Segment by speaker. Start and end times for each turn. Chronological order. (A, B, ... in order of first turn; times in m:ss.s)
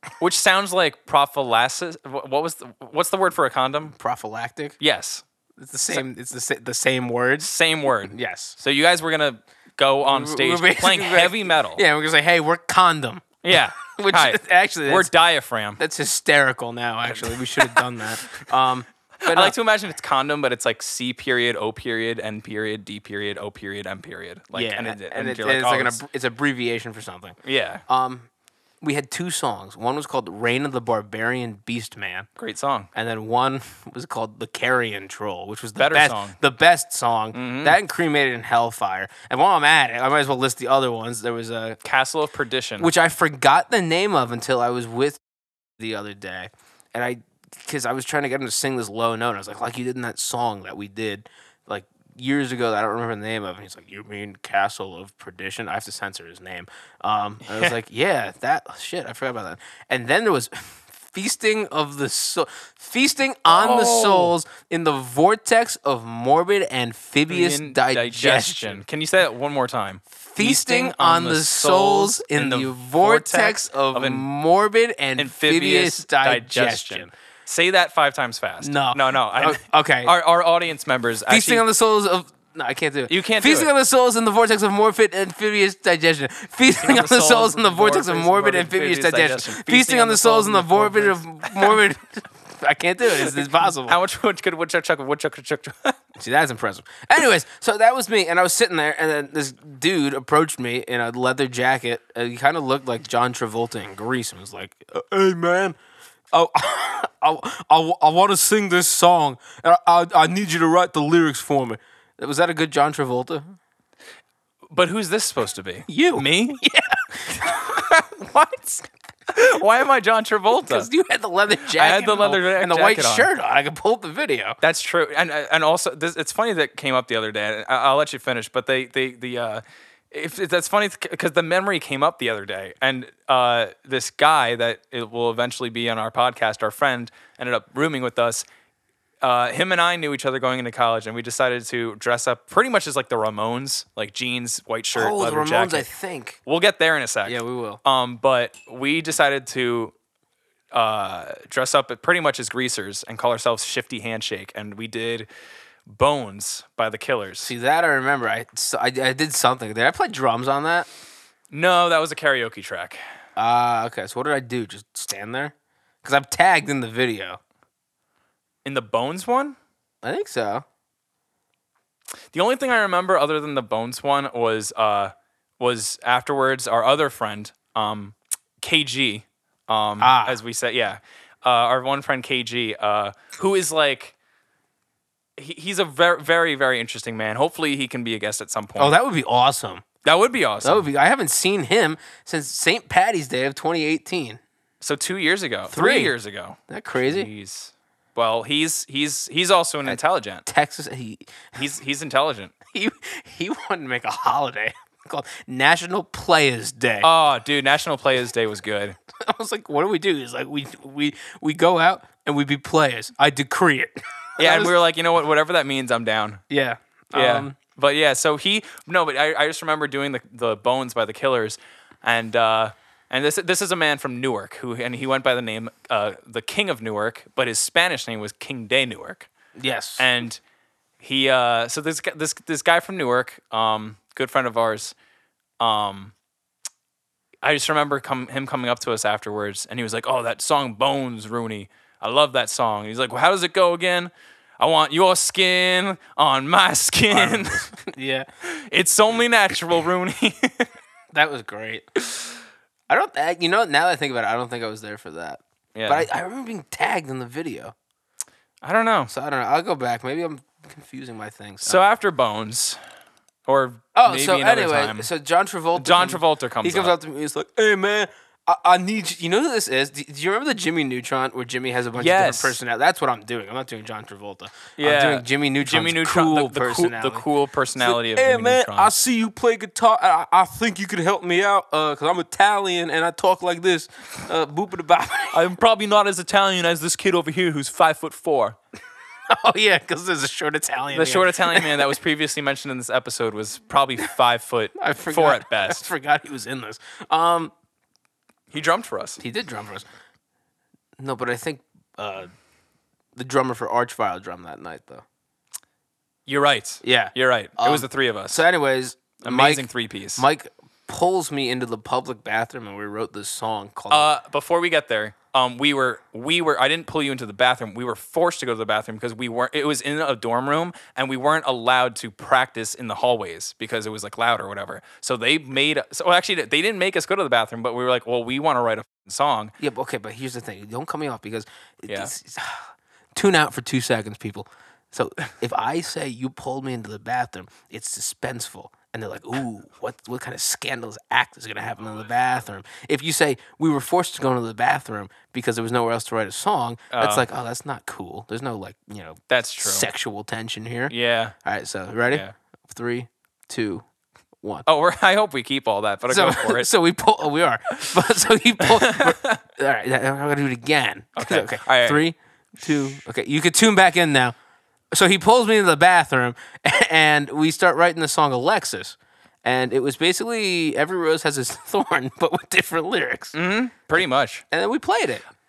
0:00.2-0:03.9 A
0:03.9-0:04.8 B
0:04.8-0:05.2 A
0:05.6-0:07.5 B
0:07.4-0:11.8 A
0:08.1-0:08.6 B
0:10.0-0:15.1 B
0:13.4-0:15.8 A
0:15.8-0:19.5 B
0:17.0-0:18.0 A
0:19.2-0:26.0 A
0:24.5-0:28.3 B
0:27.4-0:27.8 A
0:28.8-0:32.3 B
0:32.4-0:32.9 A
0:32.9-0:41.8 B
0:35.8-0:36.4 A
0:37.3-0:37.8 A
0:41.8-0:42.9 A
0:42.8-0:45.2 B
0:45.8-1:08.8 B
0:57.5-0:57.7 A
1:03.5-1:04.3 A
1:07.3-1:14.2 A
1:10.1-1:17.1 B
1:15.2-1:21.6 A
1:18.6-1:20.1 B
1:21.3-1:34.0 B
1:23.1-1:23.7 A
1:26.8-1:31.8 A
1:33.2-1:36.0 A
1:36.2-1:45.8 B
1:46.3-1:53.4 B
1:54.7-1:56.6 A
1:55.9-1:58.8 B
1:57.4-1:58.4 A
1:59.3-2:00.9 A
2:00.5-2:04.6 B
2:01.6-2:03.3 A
2:04.6-2:18.4 A
2:19.2-2:25.8 A
2:24.9-2:26.4 B
2:26.4-2:29.9 A
2:27.2-2:27.8 B
2:30.7-2:35.3 A
2:35.8-2:37.5 A
2:37.4-2:40.9 B
2:41.5-2:43.0 A
2:43.4-2:47.4 B
2:48.6-2:49.6 A
2:50.0-2:50.6 B
2:52.3-3:04.1 A
3:00.0-3:00.4 B
3:05.4-3:09.0 A
3:08.8-3:09.8 B
3:10.0-3:10.8 A
3:10.6-3:14.4 B
3:14.8-3:20.4 A
3:15.7-3:16.1 B
3:16.7-3:17.3 B
3:19.8-3:21.6 B
3:21.6-3:22.5 A
3:22.7-3:27.1 B
3:27.0-3:29.0 A
3:29.2-3:34.7 B
3:34.4-3:36.4 A
3:36.5-3:37.6 B
3:37.1-3:49.3 A
3:49.6-3:50.1 B
3:50.0-3:50.4 A
3:51.0-3:54.9 A
3:55.6-3:56.1 A
3:57.4-4:07.7 A
4:07.1-4:08.3 B
4:08.4-4:10.7 A
4:11.1-4:11.8 B
4:12.9-4:17.7 B
4:15.7-4:16.1 A
4:18.6-4:19.1 A
4:19.1-4:21.8 B
4:21.6-4:22.8 A
4:23.4-4:25.1 A
4:23.9-4:37.2 B
4:25.8-4:26.9 A
4:31.9-4:32.6 A
4:34.8-4:38.9 A
4:37.8-4:45.4 B
4:45.3-4:48.6 A
4:49.3-4:51.8 B
4:50.9-4:55.9 A
4:54.8-4:57.5 B
4:58.5-4:59.2 A
4:59.2-4:59.8 B
5:01.0-5:02.3 B
5:03.1-5:05.0 B
5:06.2-5:08.4 A
5:06.8-5:14.1 B
5:09.2-5:10.2 A
5:13.9-5:29.5 A
5:29.6-5:50.9 B
5:46.9-5:47.3 A
5:49.3-5:49.9 A
5:50.9-5:51.3 A
5:51.4-5:53.8 B
5:54.6-5:56.7 A
5:56.1-6:04.3 B
5:57.7-5:58.0 A
5:58.6-5:59.4 A
6:01.2-6:02.0 A
6:04.9-6:13.4 B
6:13.3-6:14.4 A
6:14.5-6:15.2 B